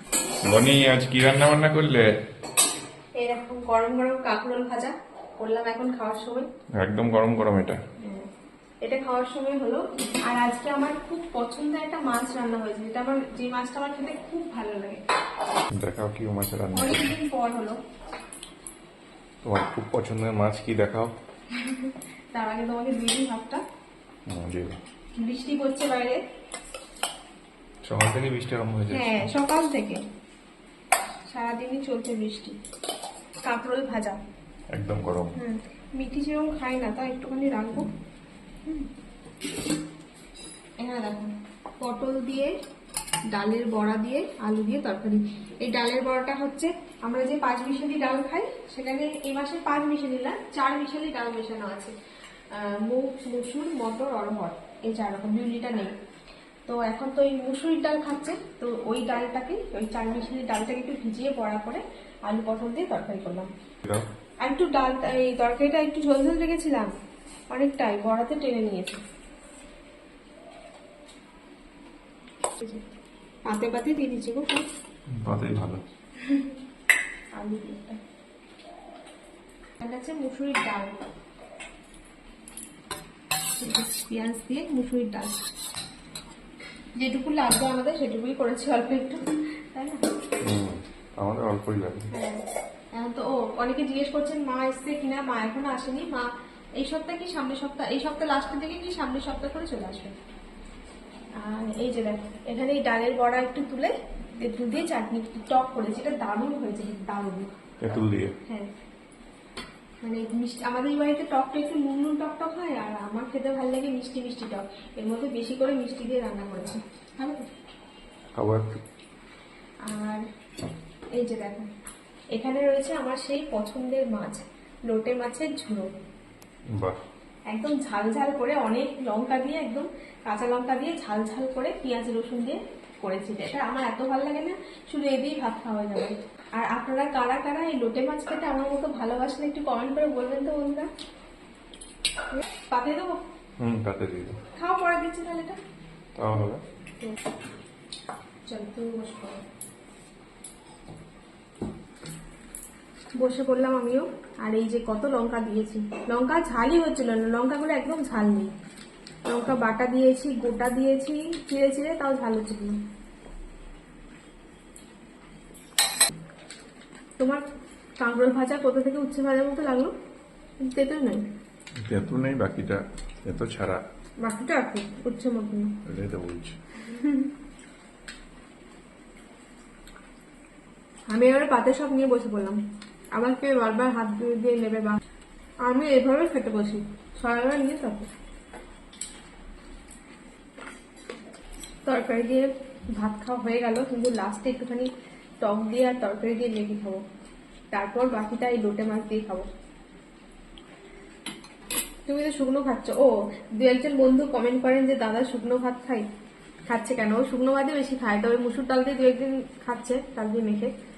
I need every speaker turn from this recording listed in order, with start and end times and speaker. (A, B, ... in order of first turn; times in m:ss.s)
0:00.4-0:02.1 A
0:03.2-0:06.5 B
0:06.8-0:07.8 A
0:08.0-0:08.3 B
0:08.8-0:15.0 B
0:15.8-0:17.2 A
0:16.7-0:17.8 B
0:19.4-0:21.1 A
0:21.5-0:23.6 B
0:24.3-0:24.8 A
0:25.2-0:26.2 B
0:27.8-0:29.3 A
0:28.9-0:30.0 B
0:31.3-0:32.6 B
0:33.4-0:34.2 B
0:34.7-0:35.4 A
0:35.3-0:37.9 B
0:40.8-0:42.5 B
0:43.3-0:51.9 B
0:52.5-0:55.9 B
0:56.6-1:03.5 B
1:04.4-1:07.0 B
1:07.5-1:09.0 B
1:12.6-1:12.8 B
1:13.5-1:14.6 B
1:15.1-1:15.8 A
1:16.2-1:16.5 B
1:17.3-1:18.0 B
1:19.8-1:21.0 B
1:23.6-1:25.4 B
1:27.0-1:30.0 B
1:30.4-1:32.1 A
1:32.1-1:40.1 B
1:41.4-1:47.5 B
1:47.8-1:48.3 A
1:48.4-1:48.7 B
1:50.0-1:57.4 B
1:58.3-1:58.8 A
1:59.8-2:00.2 B
2:01.1-2:01.7 B
2:02.3-2:05.9 B
2:07.5-2:20.9 B
2:22.3-2:23.2 B
2:23.6-2:24.4 A
2:24.5-2:25.6 B
2:26.2-2:26.6 A
2:28.5-2:29.4 B
2:33.2-2:38.5 B
2:39.3-2:42.8 B
2:47.2-2:47.4 B
2:48.0-2:49.9 B
2:50.6-2:51.2 B
2:51.9-2:53.8 A
2:54.2-2:55.8 B
2:55.8-2:56.6 A
2:56.8-2:57.3 B
3:01.1-3:02.6 B
3:03.1-3:05.0 B
3:05.6-3:08.1 B
3:11.8-3:14.9 B
3:15.4-3:17.0 B
3:17.7-3:19.4 B
3:22.1-3:26.1 B
3:26.7-3:30.7 B